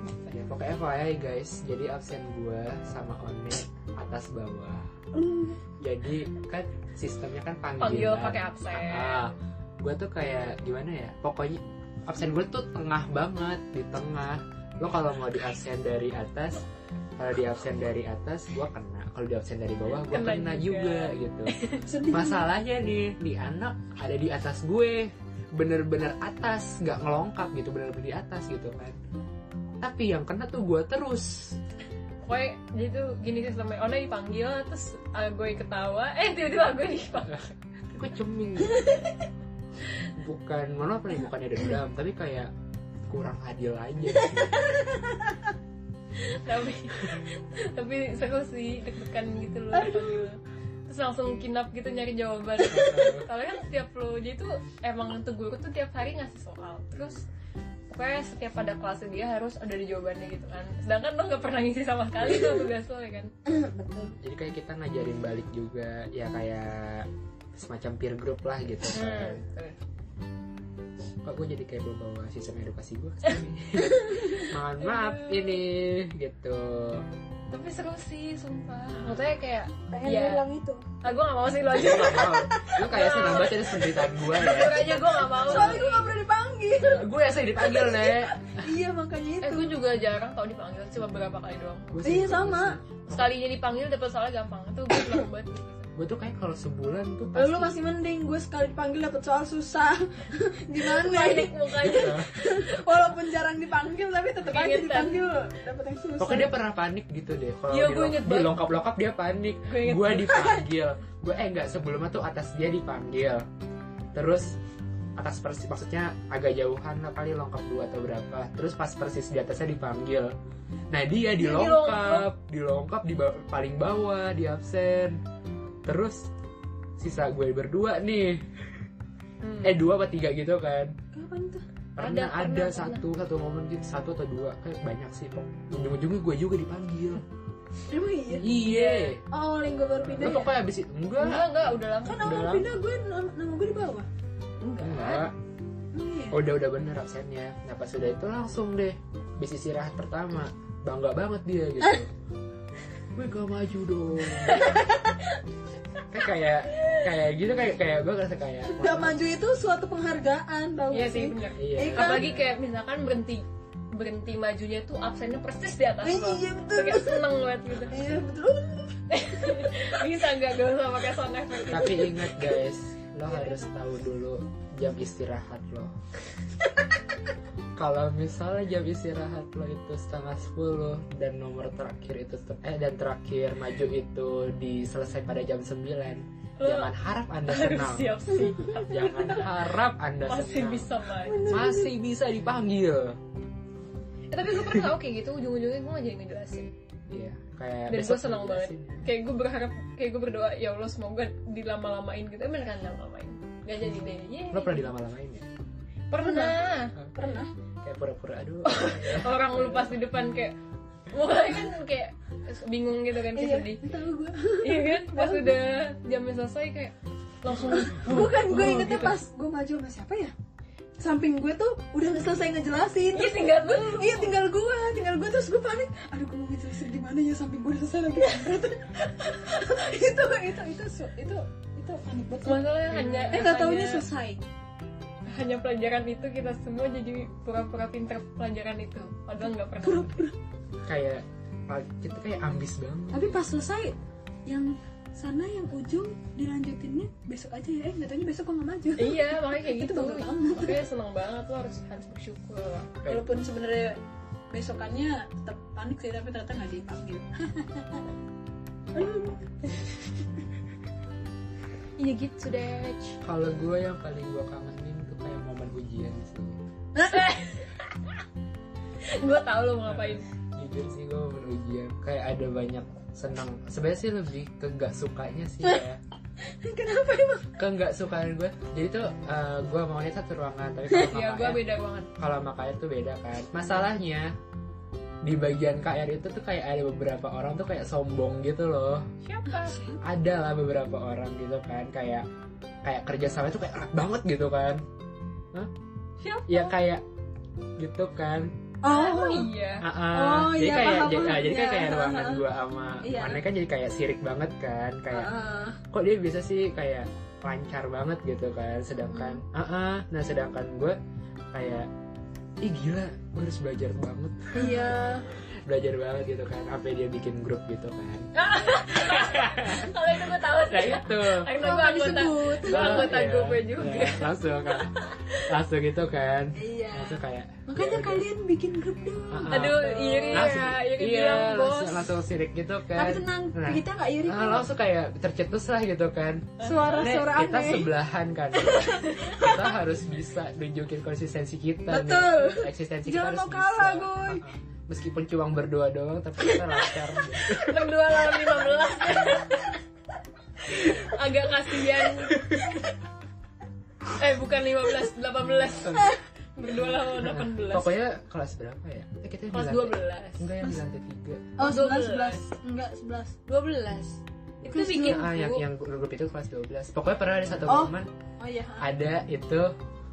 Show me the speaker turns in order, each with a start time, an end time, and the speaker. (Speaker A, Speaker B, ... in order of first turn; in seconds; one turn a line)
Speaker A: 0.3-4.9
Speaker B: 5.1-5.6
Speaker A: 5.8-16.6
Speaker C: 7.8-9.3
Speaker A: 17.2-21.5
Speaker C: 19.9-21.9
Speaker B: 21.8-22.4
Speaker A: 22.1-29.0
Speaker A: 29.8-31.6
Speaker C: 32.2-37.5
Speaker A: 37.9-38.9
Speaker A: 40.1-42.5
Speaker A: 43.1-44.7
Speaker B: 44.3-45.4
Speaker C: 46.1-57.2
Speaker B: 49.7-50.2
Speaker A: 52.7-53.3
Speaker A: 56.9-57.2
Speaker C: 57.9-63.3
Speaker B: 63.5-64.2
Speaker A: 64.2-69.4
Speaker C: 68.9-69.8
Speaker A: 71.2-77.1
Speaker C: 74.8-75.6
Speaker C: 77.5-80.4
Speaker B: 79.9-80.8
Speaker C: 81.0-83.7
Speaker A: 81.7-85.0
Speaker B: 82.0-83.5
Speaker B: 84.3-89.7
Speaker C: 84.3-86.2
Speaker A: 86.8-88.6
Speaker C: 89.4-92.0
Speaker A: 91.9-93.3
Speaker B: 92.0-92.8
Speaker C: 93.1-95.9
Speaker A: 96.0-97.8
Speaker B: 97.3-106.5
Speaker C: 100.8-102.5
Speaker A: 101.8-102.3
Speaker C: 104.4-105.2
Speaker A: 106.2-113.4
Speaker C: 107.7-108.5
Speaker C: 109.7-110.5
Speaker B: 110.3-110.5
Speaker A: 114.1-114.6
Speaker A: 115.2-120.3
Speaker A: 120.9-125.2
Speaker C: 121.4-122.2
Speaker A: 125.8-126.3
Speaker A: 127.0-128.8
Speaker C: 129.4-129.8
Speaker A: 129.6-130.9
Speaker B: 131.1-131.6
Speaker A: 132.0-137.2
Speaker C: 132.0-133.0
Speaker B: 137.9-138.6
Speaker A: 138.3-139.2
Speaker C: 138.5-139.1
Speaker B: 139.2-140.6
Speaker A: 140.0-141.5
Speaker C: 141.2-142.4
Speaker B: 142.0-144.1
Speaker A: 142.2-142.7
Speaker C: 144.6-145.2
Speaker A: 144.8-145.3
Speaker B: 145.9-146.4
Speaker A: 146.3-152.1
Speaker A: 153.1-154.8
Speaker C: 154.4-155.3
Speaker A: 156.1-159.2
Speaker C: 156.7-157.0
Speaker B: 158.7-162.3
Speaker C: 160.9-168.1
Speaker A: 161.6-162.5
Speaker B: 166.0-167.3
Speaker B: 167.9-169.5
Speaker C: 169.1-172.3
Speaker A: 171.7-175.9
Speaker B: 173.3-173.7
Speaker A: 177.8-190.9
Speaker C: 186.6-186.9
Speaker C: 187.4-189.5
Speaker C: 190.2-191.5
Speaker B: 191.2-191.9
Speaker A: 191.5-193.2
Speaker C: 194.3-196.7
Speaker A: 197.1-199.1
Speaker C: 197.9-204.8
Speaker A: 204.5-205.4
Speaker C: 206.1-206.9
Speaker B: 206.2-206.6
Speaker B: 207.1-207.5
Speaker A: 207.8-209.9
Speaker C: 208.6-210.6
Speaker C: 211.1-213.8
Speaker B: 213.3-215.6
Speaker C: 214.6-219.2
Speaker B: 217.7-220.3
Speaker B: 221.0-234.4
Speaker C: 223.1-224.3
Speaker C: 232.4-234.0
Speaker C: 235.3-240.2
Speaker B: 239.8-240.3
Speaker A: 240.8-243.4
Speaker B: 243.1-243.9
Speaker B: 244.4-250.8
Speaker C: 249.0-252.9
Speaker B: 253.1-254.0
Speaker B: 254.5-258.0
Speaker B: 258.9-259.8
Speaker C: 262.0-263.2
Speaker A: 263.2-266.6
Speaker C: 266.9-268.1
Speaker C: 269.0-270.2
Speaker A: 269.9-276.0
Speaker B: 276.4-277.5
Speaker A: 277.6-281.6
Speaker C: 280.9-282.1
Speaker A: 282.2-284.3
Speaker A: 285.2-289.1
Speaker C: 289.2-289.8
Speaker B: 289.6-290.0
Speaker A: 290.0-292.2
Speaker A: 292.8-294.8
Speaker C: 296.2-296.7
Speaker A: 296.5-297.0
Speaker A: 297.8-298.5
Speaker B: 298.8-299.5
Speaker C: 298.8-299.9
Speaker A: 299.8-305.3
Speaker B: 300.1-302.4
Speaker B: 303.0-303.4
Speaker B: 305.1-305.8
Speaker A: 305.9-311.0
Speaker B: 309.1-309.4
Speaker A: 311.5-311.9
Speaker A: 312.6-314.9
Speaker B: 314.5-315.3
Speaker A: 315.6-318.3
Speaker C: 318.3-325.5
Speaker A: 318.9-319.9
Speaker A: 320.7-321.5
Speaker B: 321.5-323.1
Speaker A: 322.6-328.3
Speaker B: 326.5-329.8
Speaker A: 329.3-347.8
Speaker C: 329.5-332.1
Speaker B: 332.9-334.7
Speaker C: 336.6-337.1
Speaker B: 336.6-337.9
Speaker B: 338.6-339.6
Speaker C: 339.0-339.4
Speaker B: 341.9-344.4
Speaker B: 346.4-347.0
Speaker C: 347.5-349.8
Speaker C: 350.6-352.7
Speaker C: 354.1-357.9
Speaker A: 357.2-361.5
Speaker C: 359.5-360.5
Speaker B: 361.6-363.4
Speaker C: 361.6-362.4
Speaker C: 363.5-365.6
Speaker A: 364.6-368.1
Speaker B: 364.7-365.2
Speaker B: 367.7-368.9
Speaker A: 368.8-369.7